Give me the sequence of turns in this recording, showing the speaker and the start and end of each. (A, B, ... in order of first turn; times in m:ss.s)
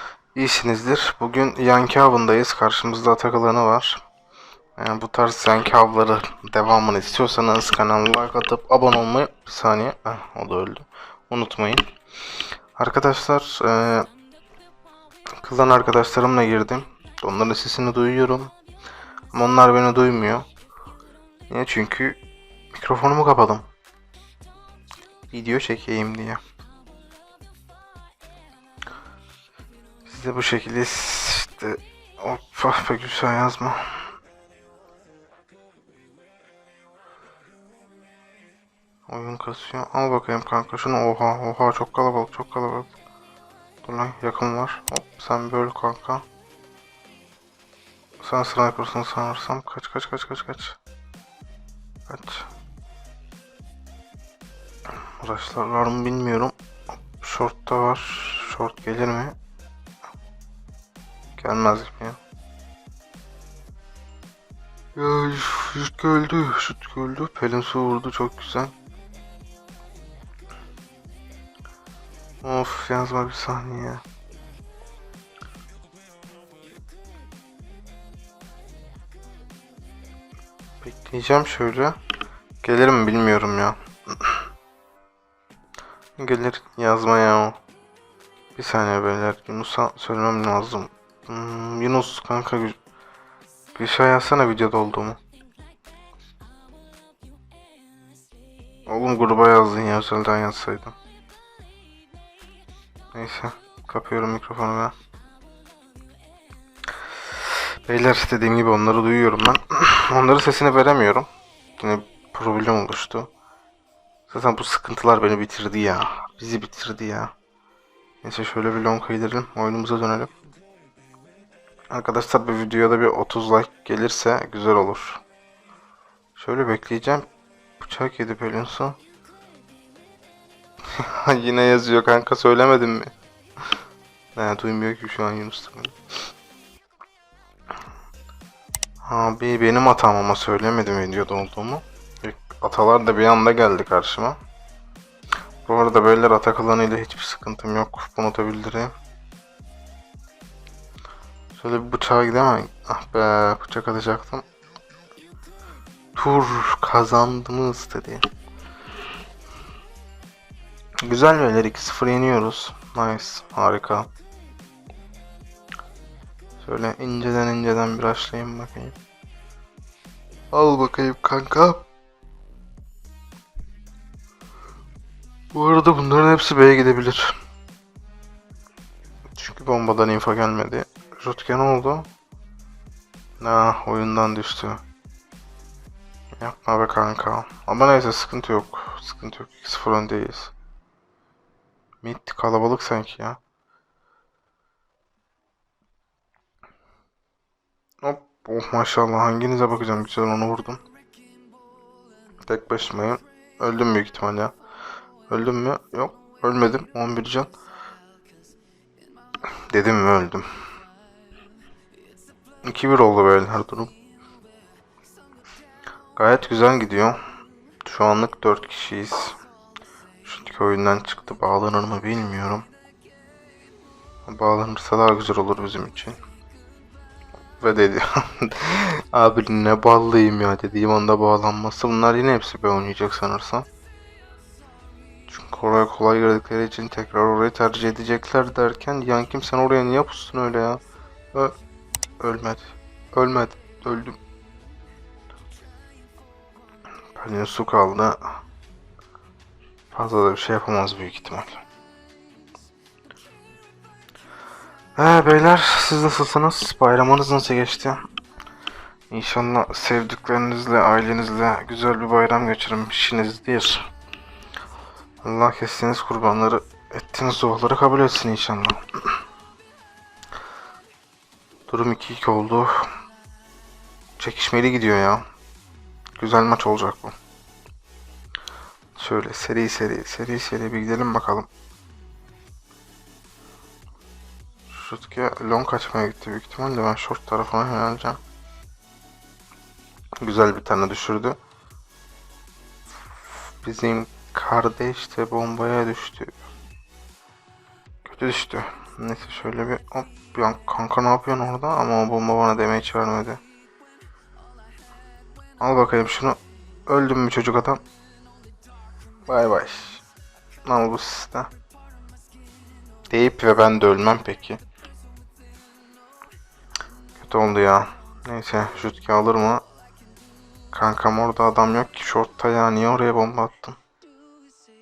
0:00.3-0:04.0 A
0:04.8-0:11.8 A
0:12.8-0:14.1 A
0:15.4-0:18.5 A
0:19.3-0:20.4 A
0:21.5-0:22.2 A
0:22.7-0:23.6 A
0:25.3-0:26.4 A
0:30.0-0:34.1 A
0:39.1-0:42.9 A
0:43.8-0:46.2 A
0:48.2-0:50.8 A
0:52.1-0:52.5 A
0:55.2-0:59.3 A
1:01.4-1:02.2 A
1:05.0-1:08.7 A
1:12.4-1:14.0 A
1:20.8-1:22.0 A
1:22.6-1:24.4 A
1:26.2-1:27.6 A
1:28.6-1:32.8 A
1:33.7-1:35.2 A
1:38.9-1:40.9 A
1:43.1-1:44.9 A
1:47.4-1:53.3 A
1:54.3-1:57.3 A
1:58.2-2:00.3 A
2:01.9-2:05.2 A
2:06.4-2:07.2 A
2:07.8-2:09.0 A
2:10.9-2:13.1 A
2:14.4-2:15.9 A
2:19.0-2:24.4 A
2:25.6-2:28.9 A
2:31.6-2:34.4 A
2:36.1-2:38.2 A
2:41.0-2:44.1 A
2:46.6-2:48.9 A
2:50.5-2:51.8 A
2:55.5-2:57.3 A
2:59.3-3:02.1 A
3:03.4-3:04.8 A
3:06.4-3:10.5 A
3:12.0-3:13.4 A
3:18.0-3:20.8 A
3:22.4-3:24.5 A
3:25.3-3:27.5 A
3:29.6-3:30.4 A
3:32.6-3:33.9 A
3:36.2-3:37.2 A
3:37.8-3:39.4 A
3:40.2-3:42.7 A
3:44.2-3:46.2 A
3:47.6-3:53.6 A
3:55.3-4:00.8 A
4:02.2-4:04.2 A
4:07.2-4:08.2 A
4:09.9-4:11.6 A
4:15.0-4:18.0 A
4:19.1-4:23.8 A
4:25.2-4:28.8 A
4:31.7-4:32.9 A
4:34.2-4:35.2 A
4:36.2-4:37.1 A
4:39.0-4:41.5 A
4:44.7-4:48.2 A
4:50.2-4:51.4 A
4:53.6-4:56.4 A
4:58.0-5:03.4 A
5:05.6-5:07.8 A
5:09.3-5:10.0 A
5:10.6-5:11.5 A
5:13.1-5:14.6 A
5:17.2-5:19.6 A
5:20.7-5:23.8 A